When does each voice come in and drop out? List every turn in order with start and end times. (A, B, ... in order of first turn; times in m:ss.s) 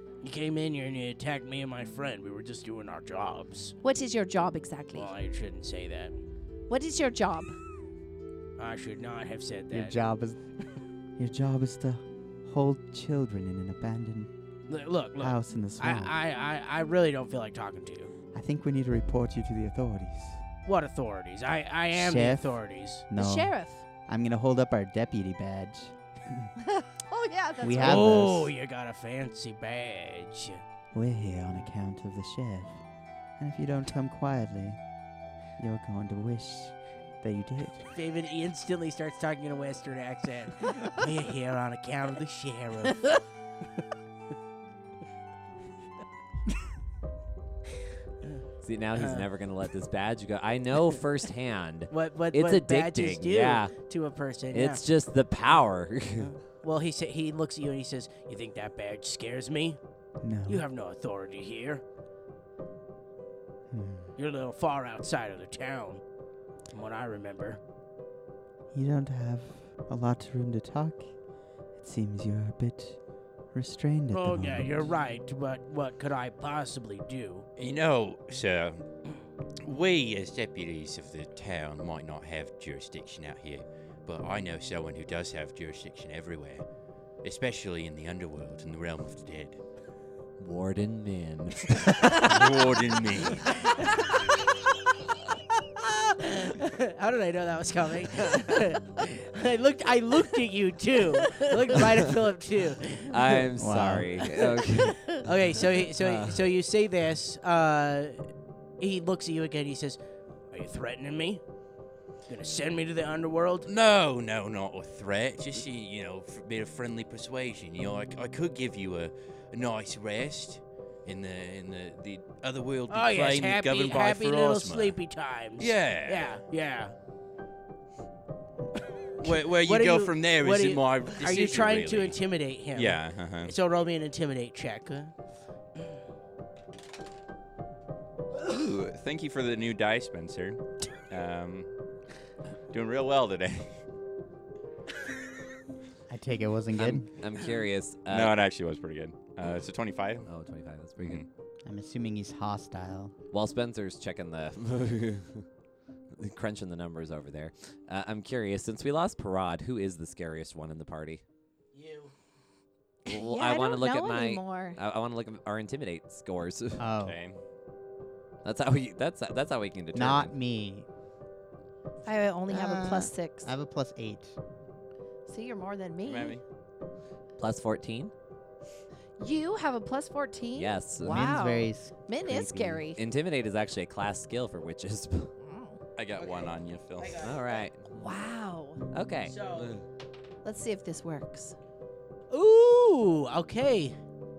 0:00.2-0:03.8 A
0:03.8-0:05.1 B
0:04.9-0:06.2 A
0:06.7-0:07.6 B
0:08.6-0:10.0 A
0:09.7-0:10.4 C
0:11.2-0:14.3 C
0:14.7-0:18.1 A
0:15.2-0:16.1 C
0:18.3-0:20.4 C
0:20.7-0:23.0 A
0:21.9-0:23.6 C
0:23.2-0:23.8 B
0:24.1-0:26.5 C
0:26.6-0:28.1 B
0:27.6-0:28.5 C
0:27.7-0:30.6 A
0:30.9-0:32.8 C
0:33.4-0:34.8 C
0:35.6-0:37.9 C
0:37.9-0:43.2 A
0:48.6-0:53.7 D
0:49.0-0:49.3 A
0:51.9-0:54.8 A
0:54.5-0:56.3 D
0:56.2-0:59.8 A
1:00.2-1:00.6 C
1:00.5-1:01.8 A
1:03.7-1:04.1 C
1:04.2-1:06.0 A
1:06.7-1:07.6 A
1:08.7-1:11.1 C
1:11.8-1:13.0 C
1:13.5-1:14.9 C
1:14.1-1:17.5 A
1:17.6-1:18.9 E
1:19.6-1:26.6 E
1:27.2-1:29.6 E
1:30.4-1:32.6 D
1:32.2-1:33.7 E
1:35.8-1:43.4 A
1:43.1-1:46.5 D
1:43.6-1:44.2 C
1:44.6-1:48.3 A
1:48.8-1:50.0 A
1:50.5-1:51.4 A
1:52.3-1:53.7 A
1:53.7-2:05.0 E
2:02.9-2:06.9 A
2:05.6-2:06.4 E
2:09.2-2:12.2 E
2:09.2-2:15.1 A
2:12.7-2:13.6 E
2:18.4-2:21.7 E
2:22.7-2:23.8 E
2:26.1-2:27.1 C
2:26.8-2:28.4 D
2:28.1-2:30.3 E
2:30.2-2:31.2 D
2:31.0-2:31.3 E
2:31.7-2:33.1 C
2:33.3-2:35.5 D
2:36.2-2:41.2 D
2:41.7-2:42.1 A
2:43.1-2:44.8 B
2:43.1-2:46.8 D
2:46.8-2:47.2 C
2:47.0-2:47.4 E
2:48.4-2:50.3 D
2:49.9-2:50.9 C
2:52.1-2:53.5 B
2:52.5-2:54.4 C
2:55.3-2:56.4 B
2:56.0-2:56.4 E
2:57.4-2:58.1 D
2:59.2-3:03.0 B
3:00.6-3:01.3 D
3:01.0-3:02.8 C
3:03.0-3:05.3 D
3:05.4-3:05.8 B
3:06.0-3:07.2 E
3:06.2-3:07.7 A
3:07.2-3:08.1 D
3:07.9-3:08.9 B
3:08.9-3:09.8 D
3:09.2-3:09.8 A
3:10.4-3:11.6 B
3:12.3-3:14.0 A